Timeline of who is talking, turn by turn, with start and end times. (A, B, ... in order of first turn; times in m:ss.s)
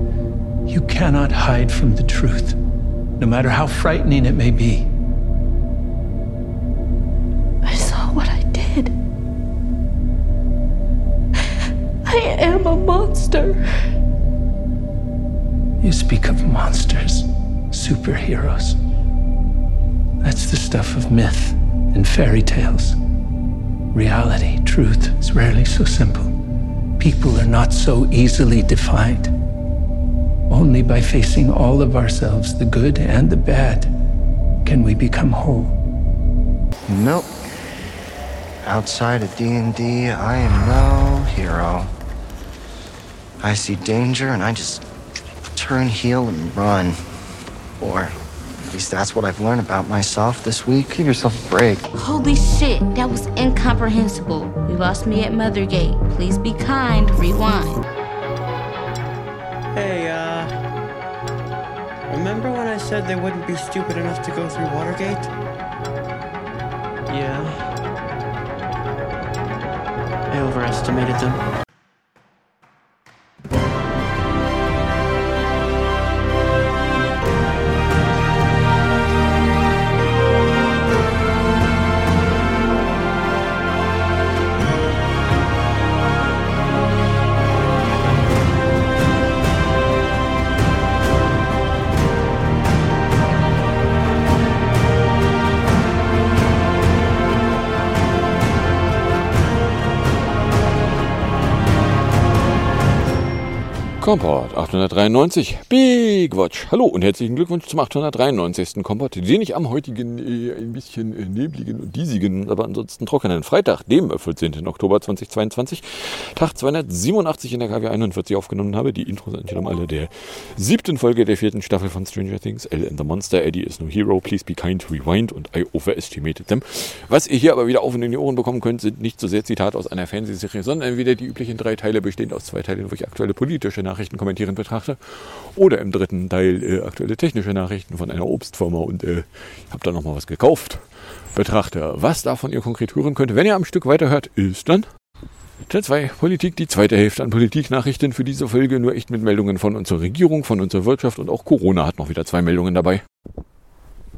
0:00.7-0:02.6 A
0:03.2-0:04.9 A
0:07.6-0:08.9 B
0:12.0-0:13.6 B
0:15.8-0:18.8 A
0:20.2-0:23.0 A
0:23.9-0:26.3 A
0:27.0-0:29.3 A
0:30.5-0:33.9 A
0:34.6-0:35.7 A
0:36.9-0:37.4 C
0:38.6-0:41.9 C
0:43.4-0:44.8 C
0:45.6-0:47.0 C
0:47.8-0:48.1 C
0:48.6-0:51.8 C
0:51.9-0:57.8 D
0:59.7-1:00.5 E
1:02.1-1:05.3 E
1:07.1-1:07.7 E
1:10.3-1:11.4 E
1:44.0-2:24.9 F
2:25.7-2:33.0 F